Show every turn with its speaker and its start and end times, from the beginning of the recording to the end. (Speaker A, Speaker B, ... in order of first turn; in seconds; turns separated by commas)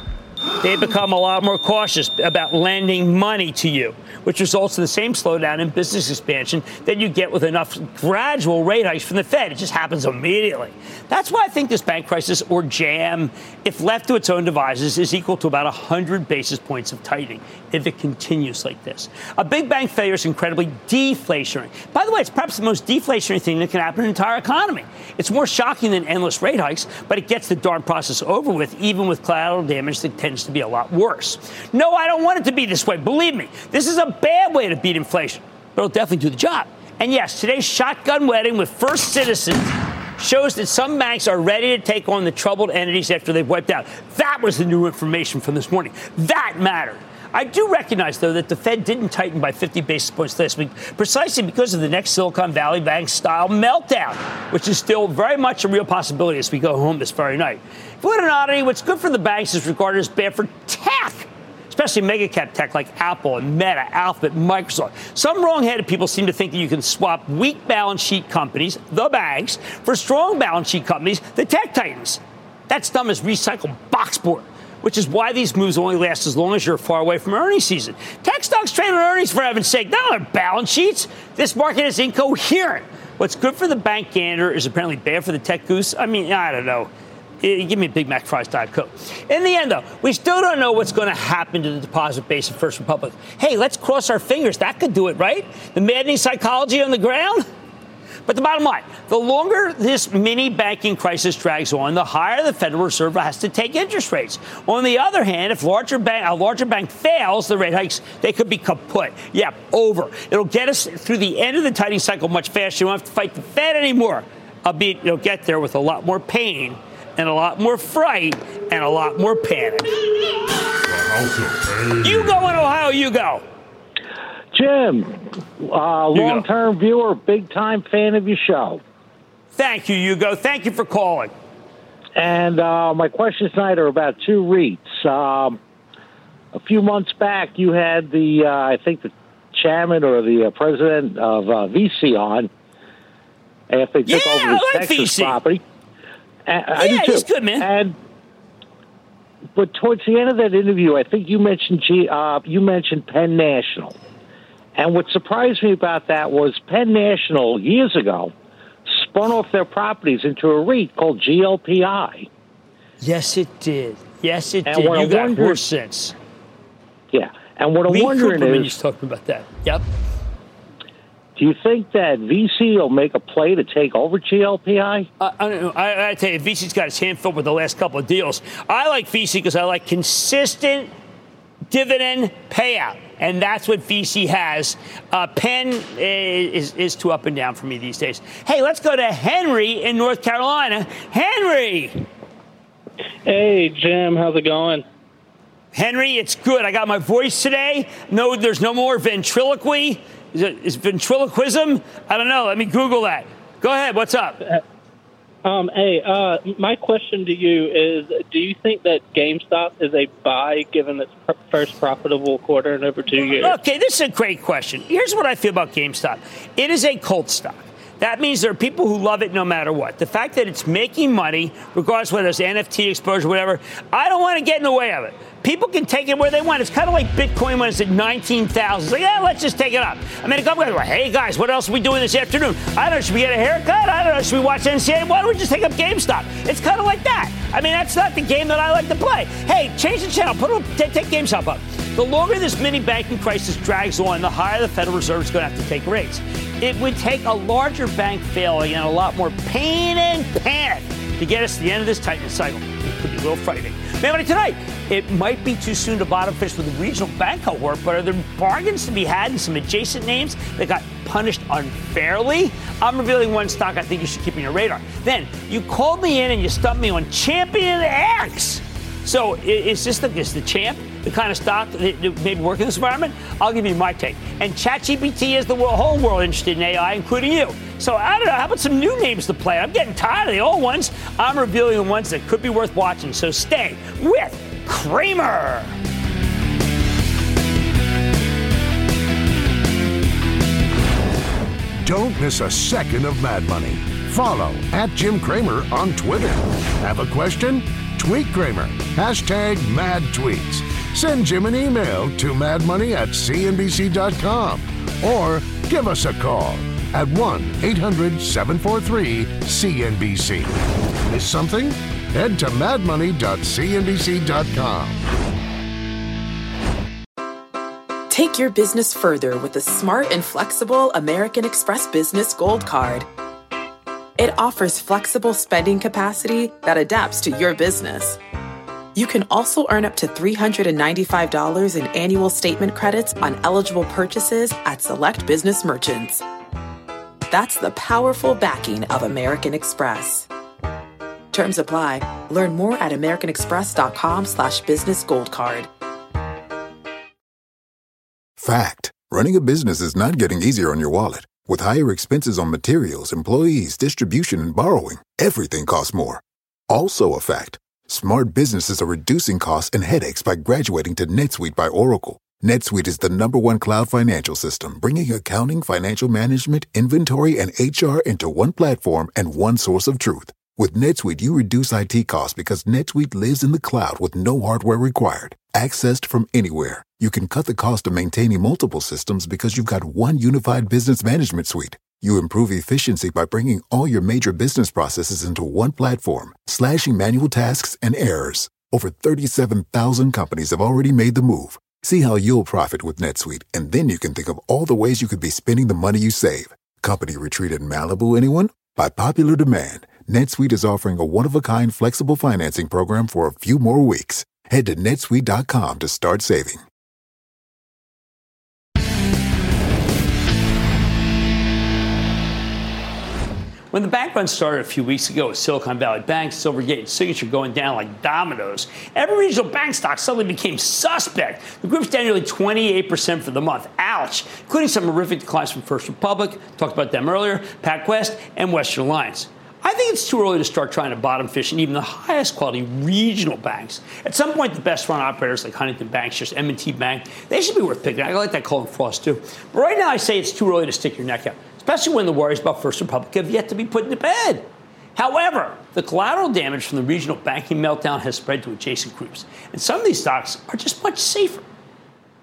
Speaker A: 0.6-86.9, Speaker A: 87.4-97.4, Speaker A: 98.3-119.9, Speaker A: 122.0-123.4, Speaker B: 124.5-128.8, Speaker A: 126.1-126.5, Speaker A: 129.5-131.3, Speaker B: 132.2-135.6, Speaker B: 136.6-142.5, Speaker B: 143.7-145.6, Speaker A: 144.1-145.4, Speaker B: 146.5-147.9, Speaker A: 146.7-147.7, Speaker B: 149.6-153.9, Speaker B: 154.8-158.3, Speaker B: 158.9-162.3, Speaker A: 163.0-166.2, Speaker B: 164.7-165.7, Speaker B: 167.1-168.8, Speaker A: 167.9-169.8, Speaker B: 171.3-175.1, Speaker A: 175.2-180.9, Speaker A: 181.7-192.0, Speaker C: 193.2-194.8, Speaker A: 195.7-204.4, Speaker C: 205.4-213.6, Speaker A: 213.3-285.7, Speaker D: 291.8-315.0, Speaker E: 318.1-323.1, Speaker E: 324.2-328.2, Speaker E: 328.9-336.2, Speaker E: 337.3-340.3, Speaker E: 341.3-345.7, Speaker F: 348.4-406.6, Speaker A: 413.7-451.4